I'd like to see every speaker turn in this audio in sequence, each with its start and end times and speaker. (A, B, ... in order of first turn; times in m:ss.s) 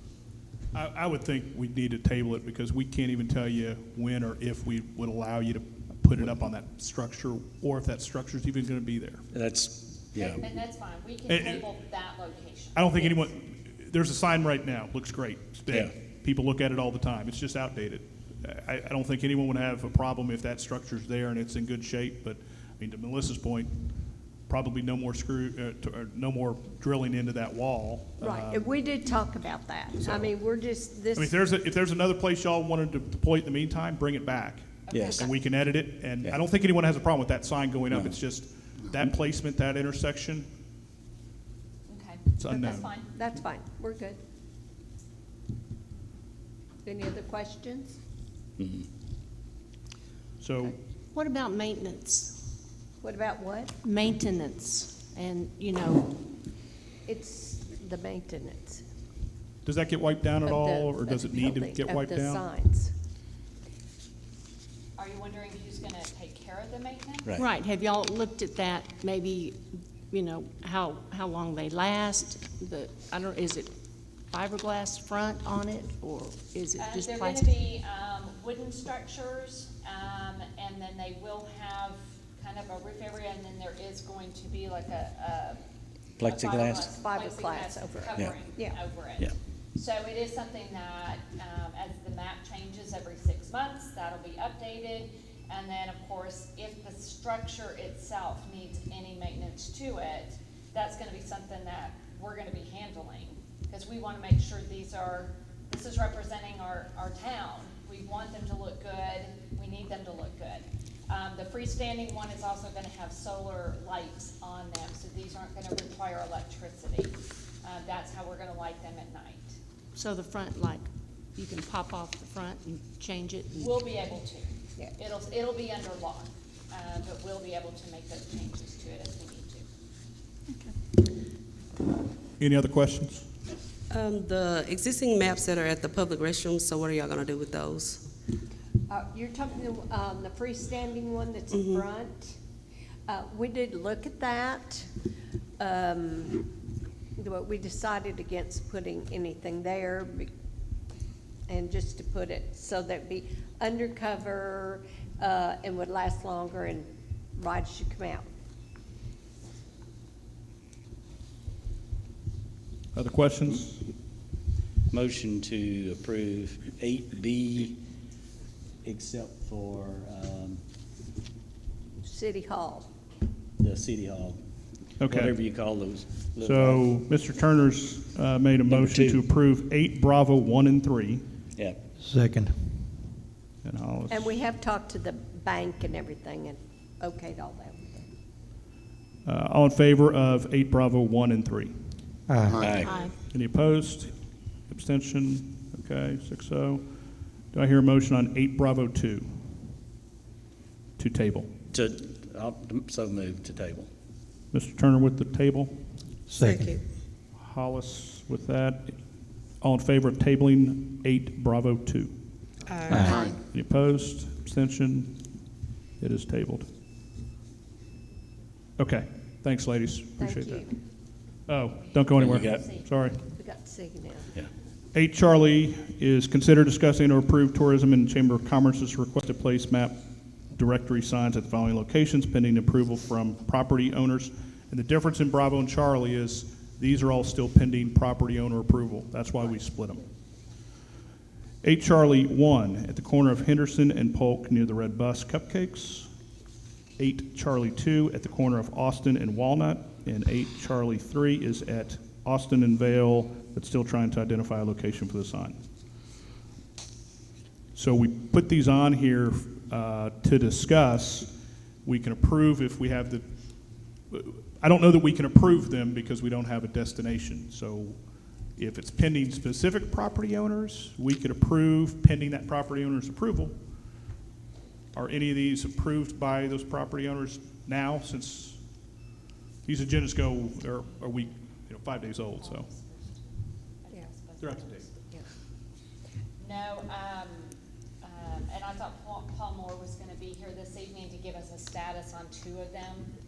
0:00.7-0:09.3 A
0:09.3-0:10.4 B
0:10.2-0:13.3 C
0:11.3-0:11.7 A
0:12.7-0:23.7 A
0:15.7-0:15.9 B
0:24.5-0:28.7 A
0:28.2-0:31.4 D
0:30.0-0:30.3 A
0:31.2-0:40.5 A
0:34.9-0:35.3 C
0:34.9-0:35.3 B
0:37.9-0:38.2 B
0:41.9-0:43.1 C
0:42.4-0:42.9 A
0:42.5-0:44.2 D
0:46.8-0:48.0 D
0:48.6-0:48.9 B
0:50.4-0:50.8 A
0:51.1-0:52.4 E
0:53.0-0:53.7 D
0:53.8-0:56.2 E
0:57.0-0:58.8 D
0:59.6-1:02.5 A
1:00.4-1:02.9 D
1:05.0-1:07.4 C
1:07.4-1:13.7 E
1:14.3-1:17.6 E
1:16.8-1:25.6 C
1:26.2-1:26.9 B
1:26.2-1:59.6 C
1:26.8-1:28.8 D
1:59.9-2:03.7 E
2:03.6-2:09.6 C
2:12.4-2:13.3 A
2:13.9-2:18.0 F
2:18.9-2:22.4 D
2:21.5-2:21.8 F
2:23.1-2:24.9 D
2:25.6-2:26.5 D
2:27.2-2:30.3 D
2:31.5-2:38.3 D
2:42.9-2:43.8 A
2:44.9-2:47.8 B
2:48.8-2:50.6 B
2:52.0-2:52.9 D
2:53.6-2:54.4 B
2:55.0-2:55.3 A
2:55.1-2:56.9 B
2:56.4-3:01.2 A
2:58.7-2:59.2 B
3:02.0-3:02.6 G
3:03.6-3:04.3 A
3:04.1-3:08.1 D
3:09.2-3:11.7 A
3:12.3-3:12.8 G
3:12.6-3:13.0 B
3:12.8-3:13.2 E
3:13.2-3:14.1 A
3:14.7-3:16.9 A
3:17.5-3:19.7 A
3:21.0-3:21.5 A
3:21.7-3:23.9 B
3:24.5-3:25.7 A
3:26.3-3:26.8 G
3:26.3-3:26.8 F
3:27.4-3:29.0 A
3:29.6-3:32.1 A
3:32.7-3:33.4 F
3:32.9-3:33.3 G
3:33.5-3:35.2 A
3:36.0-3:36.7 A
3:38.8-3:40.7 A
3:40.2-3:40.8 D
3:41.5-3:43.2 A
3:41.8-3:42.9 C
3:42.2-3:42.7 B
3:43.4-3:44.3 D
3:44.9-3:50.0 A
3:50.5-4:00.0 A
4:01.6-4:06.1 A
4:07.0-4:15.6 A
4:17.7-4:21.3 A
4:21.8-4:23.2 A
4:24.1-4:28.0 A
4:28.6-4:33.5 A
4:34.9-4:38.6 A
4:39.6-4:42.7 A
4:42.4-4:45.1 C
4:44.4-4:44.9 A
4:46.4-4:53.1 C